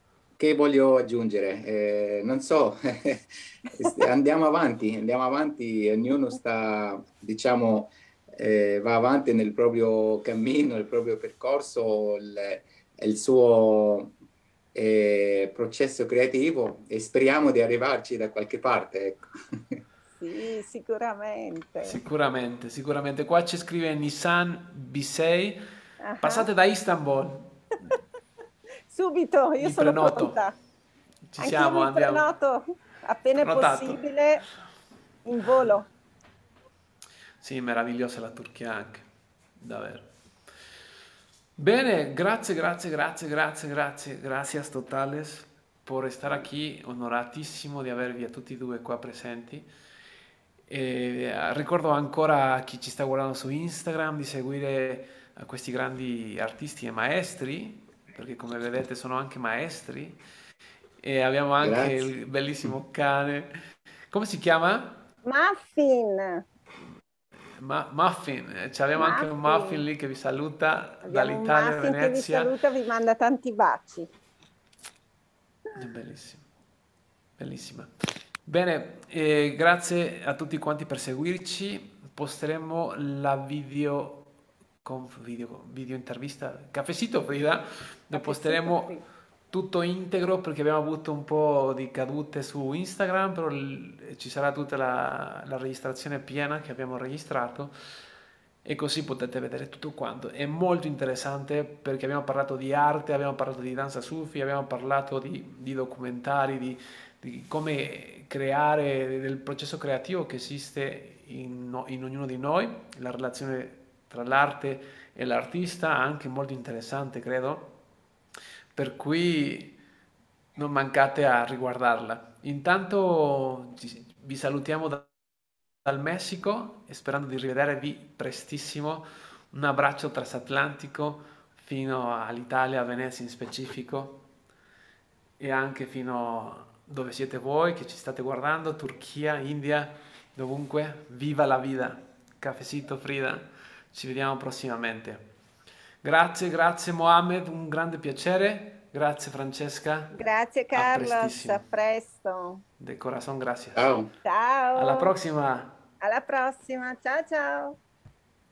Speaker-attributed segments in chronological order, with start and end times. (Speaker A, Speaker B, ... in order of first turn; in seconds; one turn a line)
Speaker A: 0.4-14.1
Speaker A: 14.7-19.3
Speaker B: 20.1-22.0
Speaker C: 21.8-25.6
Speaker B: 26.0-26.5
Speaker C: 26.2-27.7
Speaker B: 28.9-30.6
Speaker C: 29.6-30.4
Speaker C: 31.3-32.3
Speaker B: 31.4-34.4
Speaker C: 33.4-34.0
Speaker B: 35.2-35.9
Speaker C: 37.4-39.0
Speaker C: 39.6-40.1
Speaker C: 41.6-49.7
Speaker C: 50.7-60.2
Speaker C: 61.0-63.5
Speaker A: 61.6-62.1
Speaker C: 64.1-65.0
Speaker B: 65.2-66.5
Speaker C: 67.6-72.5
Speaker B: 69.0-69.8
Speaker B: 71.0-74.1
Speaker C: 75.7-76.4
Speaker C: 77.4-84.3
Speaker C: 84.8-88.9
Speaker B: 88.1-89.0
Speaker C: 89.5-97.7
Speaker C: 98.6-117.8
Speaker C: 118.7-119.8
Speaker C: 120.5-125.1
Speaker C: 125.8-134.2
Speaker C: 135.4-145.2
Speaker C: 146.0-150.1
Speaker B: 150.1-152.6
Speaker C: 150.7-151.6
Speaker C: 152.8-153.9
Speaker A: 153.7-154.1
Speaker B: 154.2-155.1
Speaker C: 154.7-155.8
Speaker B: 156.0-157.8